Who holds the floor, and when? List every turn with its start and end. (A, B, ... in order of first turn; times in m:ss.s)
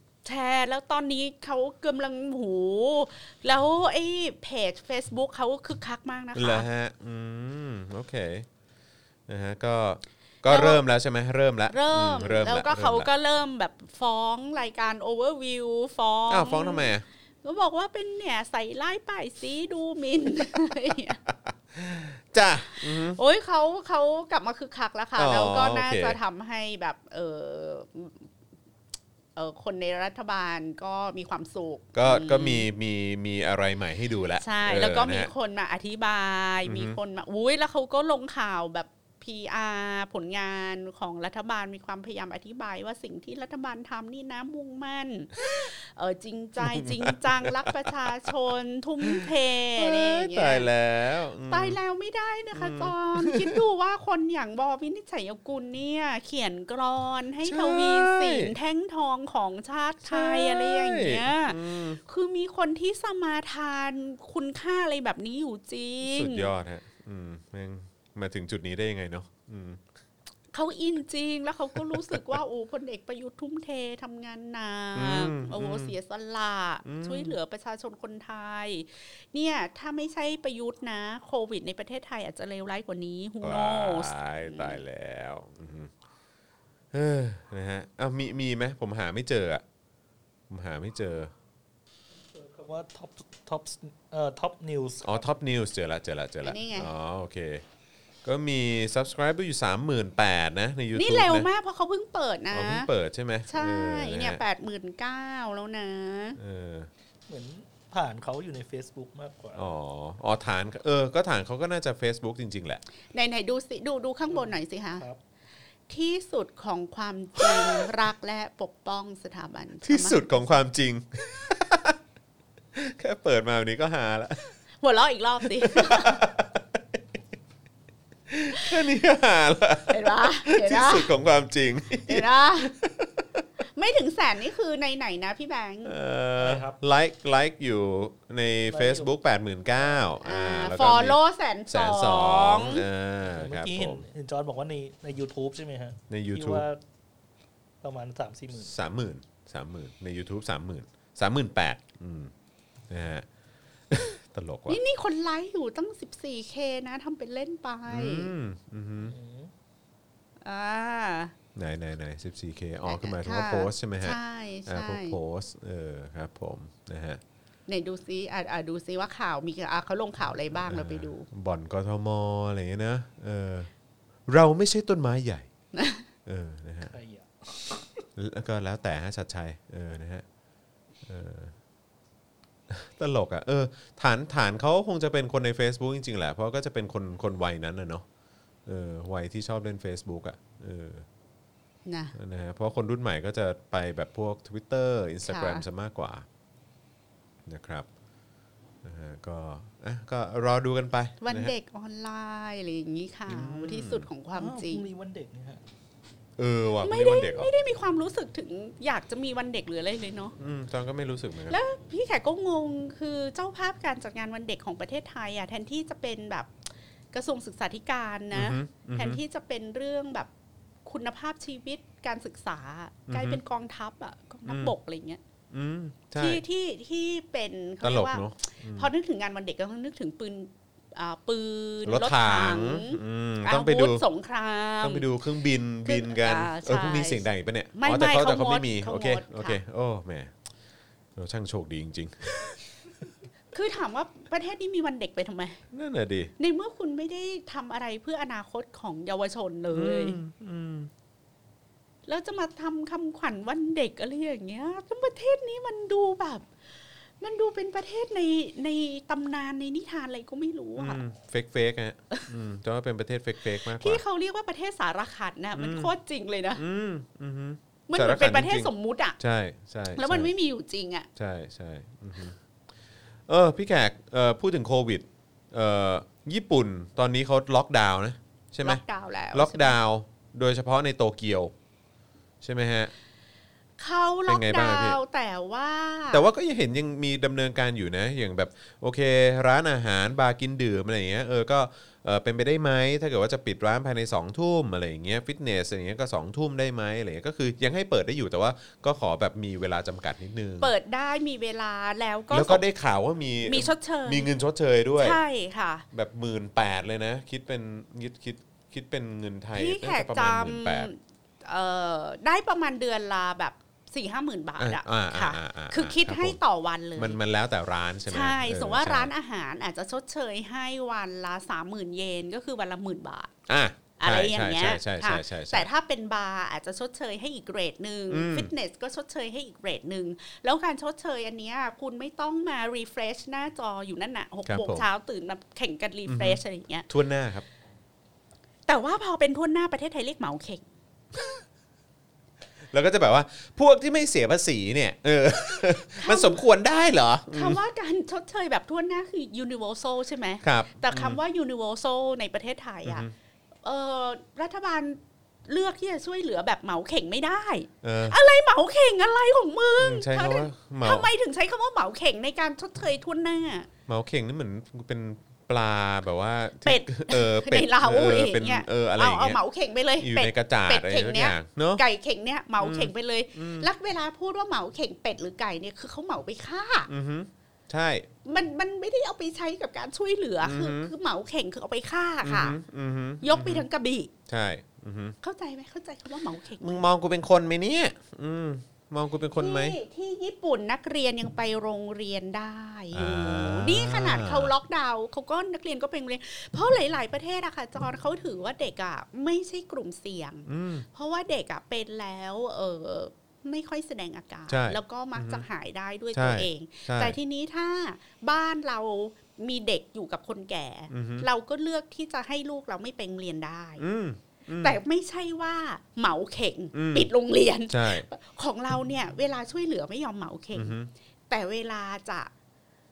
0:00.2-0:06.7 A
0:06.3-0:08.5 B
0:09.3-0:13.1 B
0:10.4-0:10.8 A
0:11.7-0:16.9 A
0:16.3-0:17.0 B
0:17.4-0:21.2 A
0:21.7-0:23.2 B
0:22.8-0:28.3 A
0:25.2-0:26.2 B
0:29.4-0:32.6 A
0:31.9-0:35.3 B
0:34.4-0:50.7 A
0:36.6-0:37.0 B
0:46.6-0:47.9 B
0:49.8-0:51.8 B
0:51.5-1:06.5 A
0:52.5-0:53.6 B
0:57.4-0:58.5 B
1:00.0-1:02.0 B
1:06.0-1:09.8 B
1:10.5-1:24.8 A
1:11.9-1:12.3 B
1:14.9-1:15.9 B
1:16.8-1:17.4 B
1:23.4-1:25.9 B
1:26.9-1:29.6 B
1:30.5-1:31.3 B
1:32.3-1:35.2 C
1:35.0-1:37.6 B
1:36.4-1:36.9 A
1:38.2-1:41.5 B
1:40.9-1:42.9 A
1:42.5-1:44.4 B
1:43.5-1:46.4 A
1:46.4-1:46.9 B
1:47.3-1:49.6 C
1:49.6-1:52.8 B
1:53.1-1:55.0 A
1:54.3-1:55.2 C
1:55.9-2:00.6 A
1:57.4-1:57.6 B
1:59.8-2:02.0 B
2:02.7-2:04.6 B
2:04.8-2:06.3 A
2:05.4-2:07.0 B
2:08.3-2:13.4 B
2:09.9-2:11.1 A
2:12.0-2:12.7 A
2:13.7-2:15.9 A
2:15.8-2:21.2 B
2:16.4-2:16.8 C
2:18.7-2:19.1 C
2:19.7-2:20.1 C
2:20.2-2:22.8 A
2:21.7-2:24.0 B
2:23.2-2:26.8 C
2:26.1-2:26.6 B
2:27.8-2:28.7 C
2:28.6-2:32.3 B
2:32.9-2:33.2 B
2:33.9-2:34.8 B
2:34.7-2:38.3 A
2:37.9-2:39.1 B
2:39.0-2:39.5 C
2:40.4-2:41.3 A
2:41.6-2:47.2 B
2:42.8-2:45.2 A
2:47.7-2:51.3 A
2:50.6-2:53.7 B
2:54.3-2:55.5 B
2:55.7-2:56.0 A
2:56.2-2:56.9 B
2:56.9-2:58.0 C
2:58.2-3:00.2 B
3:01.1-3:01.5 B
3:02.7-3:08.0 B
3:08.6-3:11.0 B
3:11.9-3:12.1 A
3:12.1-3:16.2 B
3:15.2-3:15.6 A
3:17.5-3:17.9 B
3:18.8-3:21.5 B
3:21.2-3:24.8 A
3:23.3-3:24.1 B
3:24.3-3:25.6 C
3:26.4-3:27.5 B
3:26.8-3:30.4 A
3:30.4-3:31.6 B
3:31.5-3:36.5 A
3:37.1-3:40.3 A
3:38.3-3:39.2 B
3:40.8-3:45.2 A
3:43.1-3:43.4 B
3:44.4-3:44.7 B
3:45.5-3:46.4 B
3:46.2-3:55.1 A
3:47.8-3:48.9 B
3:51.8-3:54.0 B
3:54.8-4:00.3 B
3:55.8-3:59.6 A
4:01.2-4:02.6 B
4:03.5-4:05.6 A
4:05.7-4:06.3 B
4:06.4-4:10.2 A
4:09.7-4:10.9 B
4:12.1-4:16.5 A
4:17.2-4:21.0 A
4:20.8-4:24.0 B
4:23.7-4:26.6 A
4:25.5-4:25.9 B
4:26.6-4:30.3 B
4:27.9-4:29.2 A
4:29.9-4:31.1 A
4:31.2-4:32.4 B
4:33.3-4:41.5 B
4:38.6-4:39.8 A
4:42.4-4:42.9 B
4:43.8-4:46.3 A
4:44.3-4:45.0 B
4:46.1-5:00.7 B
5:00.6-5:02.6 A
5:02.3-5:05.2 B
5:03.4-5:04.3 A
5:05.0-5:05.8 A
5:05.9-5:10.9 B
5:09.5-5:17.2 A
5:14.6-5:16.4 B
5:17.0-5:19.1 B
5:18.1-5:23.3 A
5:23.5-5:25.7 B
5:24.0-5:36.9 A
5:28.1-5:28.5 B
5:34.4-5:34.8 B
5:36.1-5:37.4 B
5:38.7-5:40.6 A
5:42.7-5:47.6 B
5:45.9-5:46.4 A
5:47.3-5:53.1 A
5:50.4-5:51.2 B
5:52.8-5:53.1 B
5:53.6-6:03.7 A
5:57.8-5:58.2 B
5:59.8-6:01.1 B
6:03.9-6:09.4 B
6:06.6-6:16.9 A
6:10.0-6:11.8 B
6:12.6-6:13.7 B
6:16.9-6:18.1 B
6:18.2-6:22.6 A
6:20.4-6:20.9 B
6:22.2-6:23.7 B
6:23.2-6:24.1 A
6:24.3-6:25.2 B
6:25.2-6:26.8 A
6:26.6-6:29.8 B
6:29.4-6:53.8 A
6:32.9-6:34.5 B
6:40.5-6:40.8 B
6:44.5-6:45.4 B
6:46.1-6:47.2 B
6:50.9-6:51.3 B
6:53.8-6:54.8 B
6:54.6-7:00.8 A
6:56.7-6:57.1 B
6:57.7-6:58.1 B
7:00.6-7:00.9 B
7:01.3-7:02.3 A